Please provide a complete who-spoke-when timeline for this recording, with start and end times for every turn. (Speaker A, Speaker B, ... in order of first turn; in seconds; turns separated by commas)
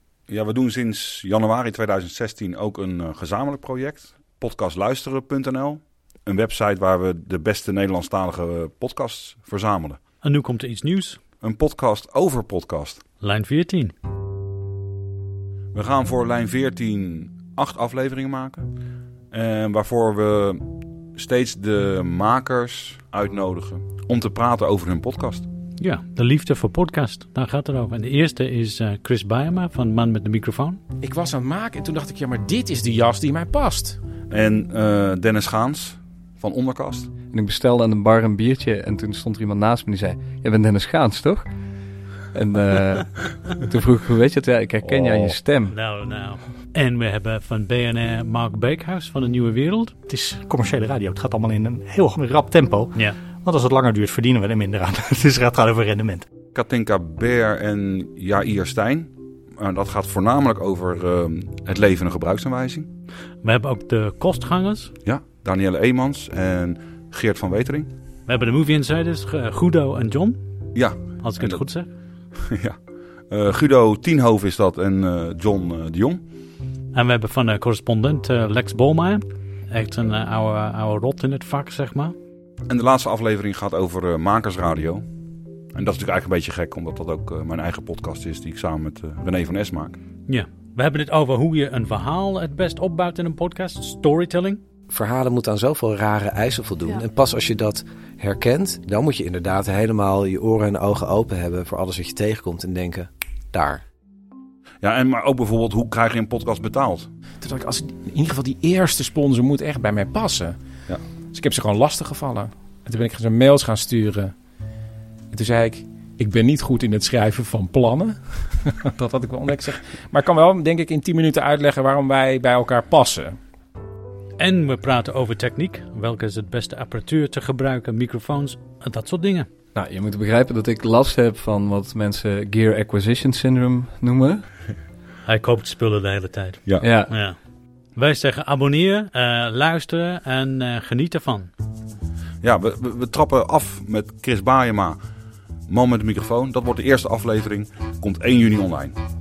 Speaker A: 0.3-10.0, Speaker B: 10.2-11.2, Speaker A: 11.4-13.0, Speaker B: 13.2-13.9, Speaker A: 15.7-18.7, Speaker A: 19.3-20.6, Speaker A: 21.1-25.4, Speaker B: 25.8-30.8, Speaker C: 31.0-34.0, Speaker A: 34.3-37.1, Speaker D: 37.3-41.4, Speaker D: 42.3-45.7, Speaker A: 44.9-45.3, Speaker B: 45.7-50.0, Speaker E: 50.1-56.2, Speaker A: 56.5-62.9, Speaker B: 63.4-64.9, Speaker A: 65.0-67.9, Speaker B: 68.3-70.4, Speaker A: 70.7-71.6, Speaker B: 71.2-71.9, Speaker A: 72.5-72.8, Speaker A: 73.3-76.2, Speaker B: 76.9-82.1, Speaker A: 82.7-85.0, Speaker A: 85.7-90.0, Speaker B: 90.3-94.6, Speaker F: 94.9-103.8, Speaker A: 104.8-107.1, Speaker C: 107.4-110.6, Speaker C: 111.3-114.3, Speaker C: 115.3-123.4, Speaker B: 124.4-129.5, Speaker D: 129.7-134.4, Speaker B: 135.2-137.4, Speaker D: 136.8-137.1, Speaker B: 137.9-141.5, Speaker A: 142.4-145.0, Speaker A: 145.7-148.9